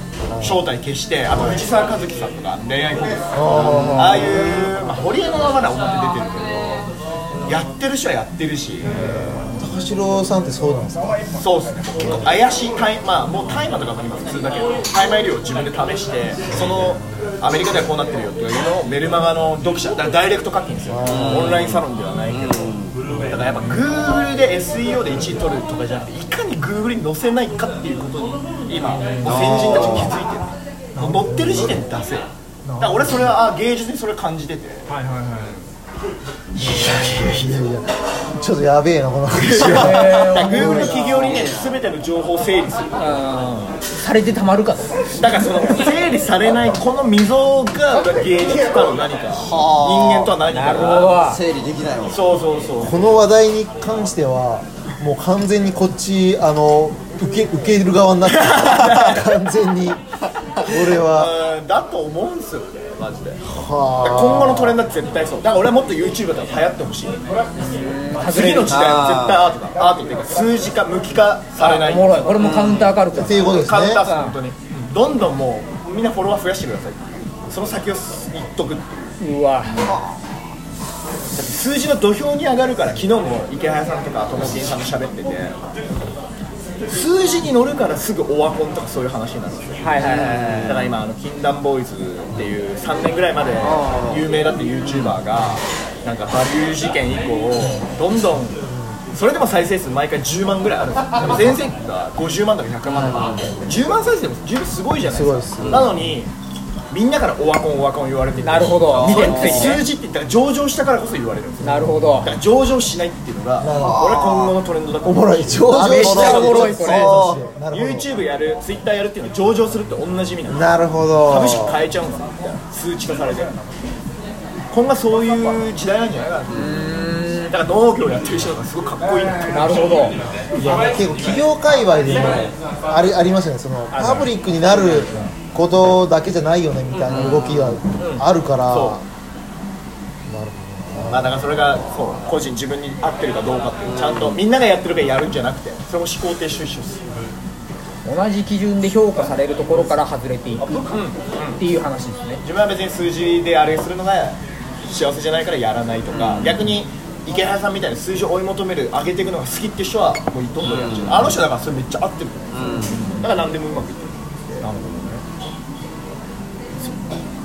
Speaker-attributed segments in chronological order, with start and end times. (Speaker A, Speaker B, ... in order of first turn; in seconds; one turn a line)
Speaker A: 0.3-0.6
Speaker B: 0.4-6.9
Speaker A: 3.3-4.5
Speaker B: 7.5-8.9
Speaker A: 9.0-11.2
Speaker B: 11.4-22.7
Speaker A: 12.0-12.3
Speaker A: 20.9-21.4
Speaker C: 23.1-23.7
Speaker B: 23.3-32.3
Speaker C: 28.9-29.6
Speaker D: 29.3-30.1
Speaker C: 31.0-31.5
Speaker C: 32.7-33.3
Speaker B: 32.8-34.9
Speaker C: 34.9-35.5
Speaker B: 36.6-37.5
Speaker A: 36.6-41.2
Speaker B: 39.3-43.1
Speaker C: 39.6-41.5
Speaker C: 43.0-45.0
Speaker B: 45.1-51.2
Speaker D: 49.5-50.3
Speaker C: 50.5-51.4
Speaker D: 51.3-52.1
Speaker B: 52.1-53.0
Speaker A: 52.8-60.0
Speaker B: 58.2-59.3
Speaker A: 60.6-61.3
Speaker B: 60.9-63.4
Speaker A: 63.5-64.8
Speaker B: 64.0-67.2
Speaker C: 67.6-68.8
Speaker B: 68.3-72.2
Speaker D: 68.7-69.3
Speaker C: 71.6-74.4
Speaker A: 73.1-74.0
Speaker B: 73.5-79.9
Speaker C: 79.2-79.8
Speaker B: 81.3-85.6
Speaker B: 86.9-98.6
Speaker C: 89.8-90.8
Speaker D: 90.2-90.7
Speaker C: 94.9-95.1
Speaker B: 99.1-106.3
Speaker A: 105.1-106.1
Speaker B: 106.9-117.2
Speaker C: 108.4-109.8
Speaker D: 109.0-109.8
Speaker C: 111.6-112.3
Speaker A: 111.6-112.2
Speaker A: 113.6-114.1
Speaker D: 113.8-114.5
Speaker A: 115.0-118.1
Speaker C: 115.7-117.2
Speaker D: 116.0-117.4
Speaker B: 117.7-120.7
Speaker A: 120.5-121.8
Speaker B: 121.3-123.5
Speaker B: 124.7-126.9
Speaker C: 126.5-127.5
Speaker B: 127.5-130.1
Speaker C: 129.5-130.2
Speaker A: 130.6-139.0
Speaker C: 133.9-135.3
Speaker B: 137.1-139.0
Speaker A: 140.3-141.3
Speaker B: 141.1-147.0
Speaker C: 148.1-150.9
Speaker B: 150.9-151.6
Speaker C: 151.6-152.4
Speaker B: 152.4-164.7
Speaker C: 162.8-163.3
Speaker C: 164.6-165.2